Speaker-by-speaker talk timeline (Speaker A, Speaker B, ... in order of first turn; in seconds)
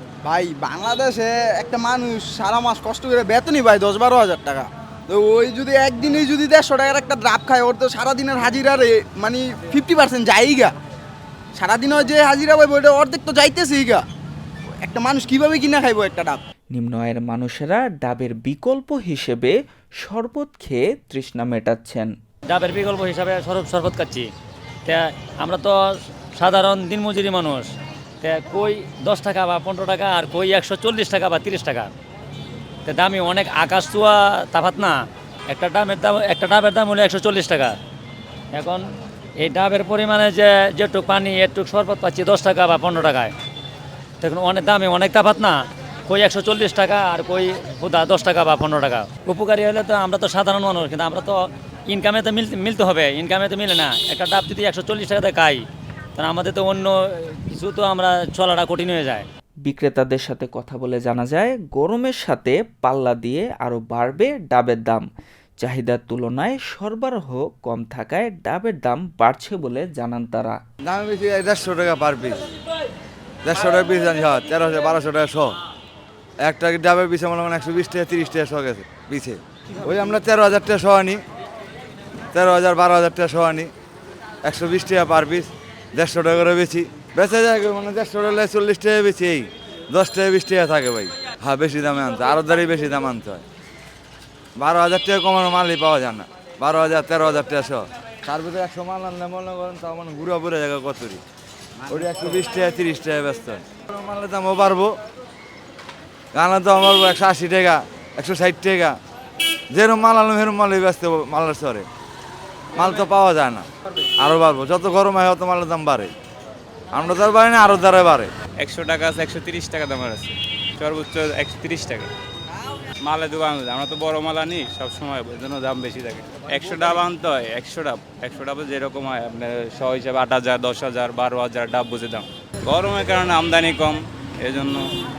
Speaker A: 0.2-10.7, 11.6-14.0, 14.8-16.4
Speaker B: 16.7-22.1, 59.6-65.0, 65.6-70.6
Speaker C: 22.5-24.3, 24.9-25.8, 26.3-27.7, 28.2-31.9, 32.9-37.8, 38.5-38.8, 39.4-43.3, 44.2-55.6, 56.1-59.2
Speaker D: 70.8-72.4, 73.4-75.5, 76.4-81.2, 82.3-83.7, 84.4-93.4, 94.6-101.2, 101.9-104.9, 106.3-108.9, 109.7-111.8, 112.8-113.7, 114.2-116.1, 116.9-118.3
Speaker E: 118.6-122.1, 123.0-134.8